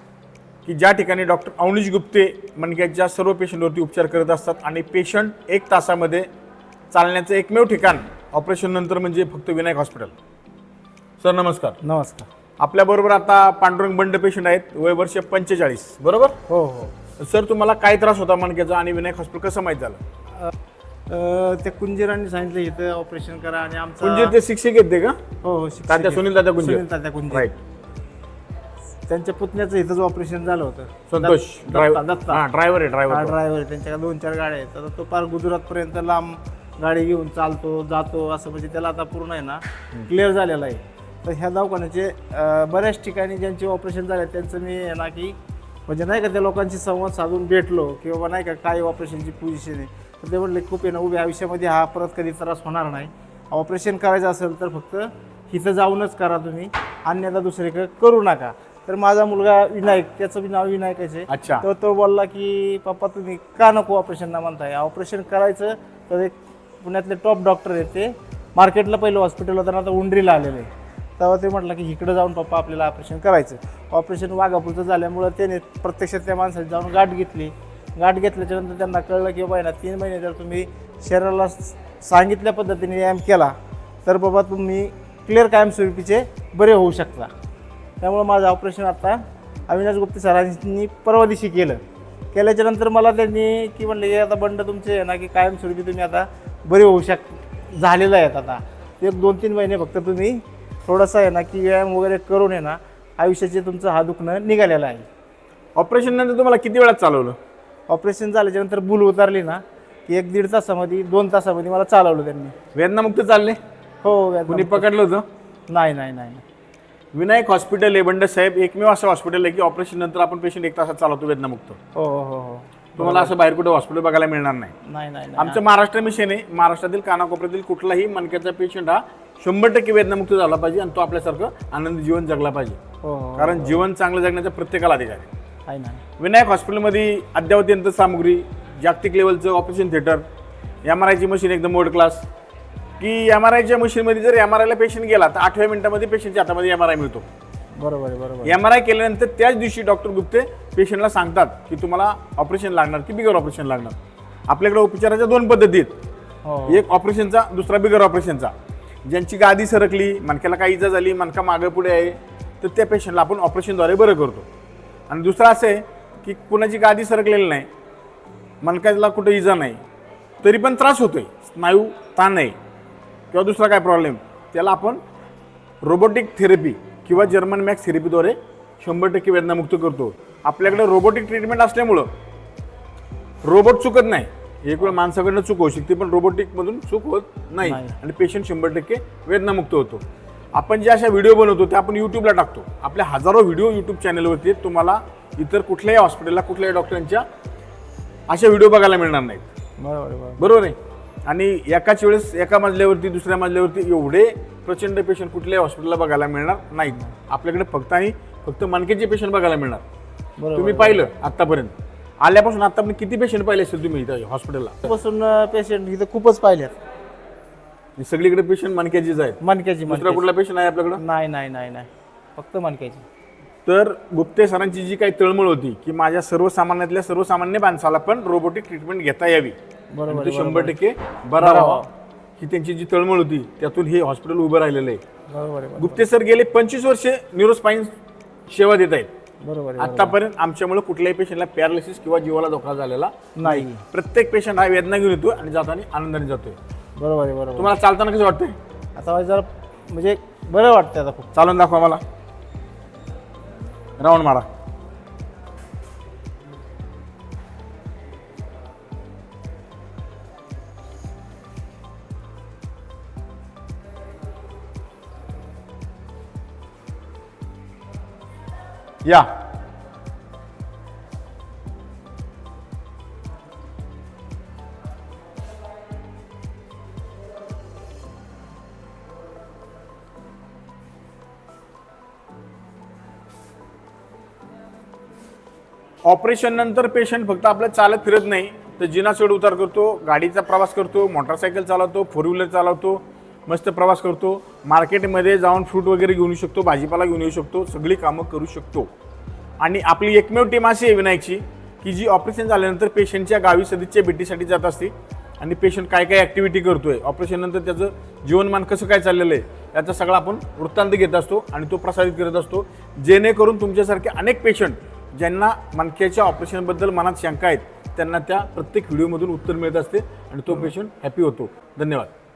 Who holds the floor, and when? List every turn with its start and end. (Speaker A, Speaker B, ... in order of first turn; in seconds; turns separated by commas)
Speaker A: 0.6-6.3, Speaker A: 6.9-10.1, Speaker A: 11.2-11.8, Speaker B: 11.8-12.3, Speaker A: 12.6-16.4, Speaker B: 16.5-16.9, Speaker A: 17.2-20.0, Speaker B: 21.1-24.4, Speaker A: 24.0-25.2, Speaker B: 25.4-27.5, Speaker A: 25.9-27.5, Speaker B: 29.1-32.4, Speaker A: 31.1-33.3, Speaker B: 33.1-45.4, Speaker B: 45.9-83.5, Speaker A: 61.3-61.6, Speaker B: 84.0-87.3, Speaker B: 88.0-105.0, Speaker A: 105.8-107.4, Speaker B: 107.9-112.5, Speaker A: 112.7-113.6, Speaker B: 114.0-114.9, Speaker A: 114.5-115.2, Speaker B: 115.7-116.4, Speaker A: 117.1-121.8, Speaker B: 121.9-123.3, Speaker A: 123.0-124.7, Speaker B: 124.9-125.6, Speaker A: 125.4-132.8, Speaker B: 133.0-133.8, Speaker A: 133.4-135.3, Speaker B: 135.7-136.0, Speaker A: 136.2-140.2, Speaker A: 140.8-142.2, Speaker A: 143.0-147.2, Speaker B: 147.8-148.6, Speaker A: 148.4-153.9, Speaker A: 154.5-155.9, Speaker B: 156.4-156.8, Speaker A: 156.7-158.5, Speaker A: 159.1-164.5, Speaker A: 165.1-167.7, Speaker A: 168.6-169.8, Speaker A: 170.4-172.6, Speaker A: 173.3-175.0, Speaker A: 175.8-182.1, Speaker A: 183.4-190.0, Speaker B: 187.6-187.9, Speaker A: 190.5-197.2, Speaker A: 198.3-199.4, Speaker B: 199.8-200.5, Speaker A: 200.4-209.8, Speaker B: 210.4-211.1, Speaker A: 210.5-214.7, Speaker B: 214.8-216.8, Speaker A: 218.0-221.0, Speaker B: 219.4-220.2, Speaker B: 221.0-223.1, Speaker A: 223.7-229.6, Speaker B: 229.9-230.7, Speaker A: 230.1-231.8, Speaker B: 231.4-231.9, Speaker A: 232.4-235.0, Speaker B: 235.3-236.0, Speaker A: 235.8-237.9, Speaker A: 238.5-239.1, Speaker B: 239.4-240.2, Speaker A: 239.8-246.6, Speaker B: 243.4-243.8, Speaker B: 247.0-247.7, Speaker A: 247.6-248.6, Speaker B: 249.0-251.3, Speaker A: 251.3-252.0, Speaker A: 254.0-254.5, Speaker A: 269.0-269.3, Speaker A: 286.0-298.9, Speaker A: 299.6-322.1